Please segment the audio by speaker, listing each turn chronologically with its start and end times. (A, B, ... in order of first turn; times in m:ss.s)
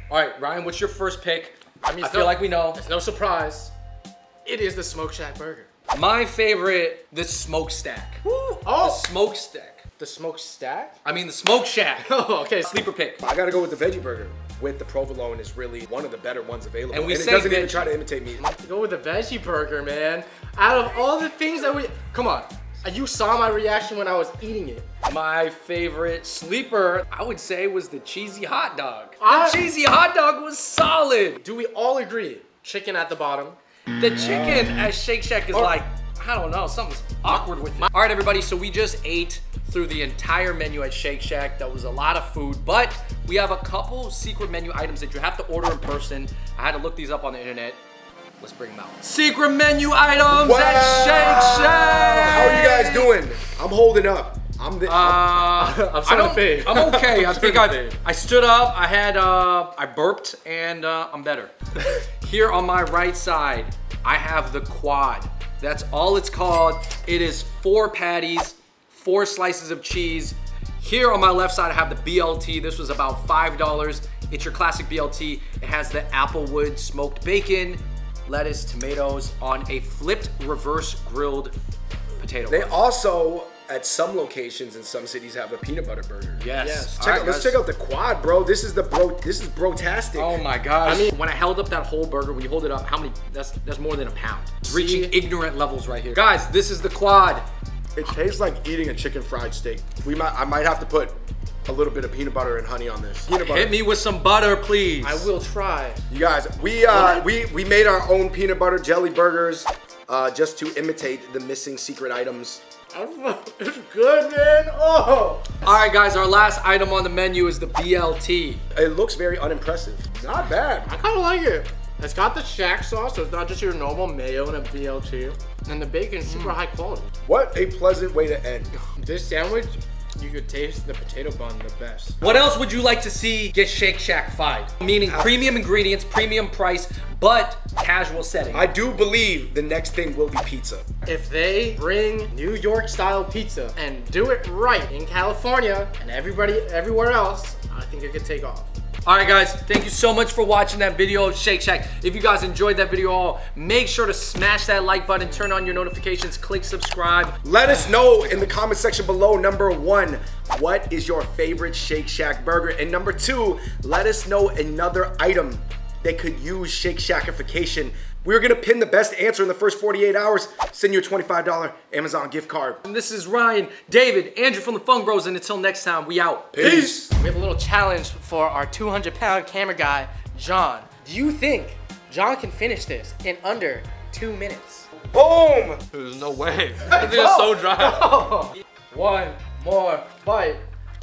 0:00.1-0:02.8 A
0:01.8-0:03.7 B
0:04.4-0:05.7 B
0:05.9-0:09.8 A
0:08.6-0:09.1 B
0:10.0-0:11.0 B
0:11.0-0:12.1 A
0:12.0-0:12.7 B
0:12.6-0:13.2 A
0:13.2-0:18.4 C
0:16.9-0:17.9 A
0:18.4-0:24.9 B
0:25.0-0:31.4 A
0:29.2-0:29.6 B
0:31.4-0:33.6 B
0:33.9-0:47.8 A
0:34.2-0:34.7 C
0:48.4-0:53.1 A
0:50.3-0:55.4 C
0:54.8-1:21.5 A
0:55.5-0:58.0 B
1:22.2-1:22.8 A
1:22.5-1:26.4 C
1:26.4-1:27.6 A
1:26.6-1:26.9 B
1:27.0-1:30.4 C
1:30.1-1:37.4 A
1:30.8-1:31.1 B
1:34.7-1:35.1 B
1:38.0-1:43.8 C
1:43.4-1:45.3 A
1:45.0-1:46.0 B
1:46.1-1:52.6 C
1:46.9-1:47.2 A
1:52.9-1:55.6 B
1:55.6-1:58.6 A
1:58.7-2:00.9 C
2:00.8-2:07.1 B
2:06.2-2:06.5 A
2:07.2-2:08.7 C
2:08.9-2:12.2 B
2:12.2-2:18.7 A
2:15.1-2:15.4 C
2:18.5-2:20.9 C
2:21.0-2:28.7 B
2:29.0-2:37.4 A
2:37.4-2:52.8 C
2:52.8-2:56.8 A
2:56.5-2:57.1 C
2:56.6-3:04.9 B
3:05.1-3:05.8 C
3:06.0-3:08.2 A
3:06.8-3:10.6 B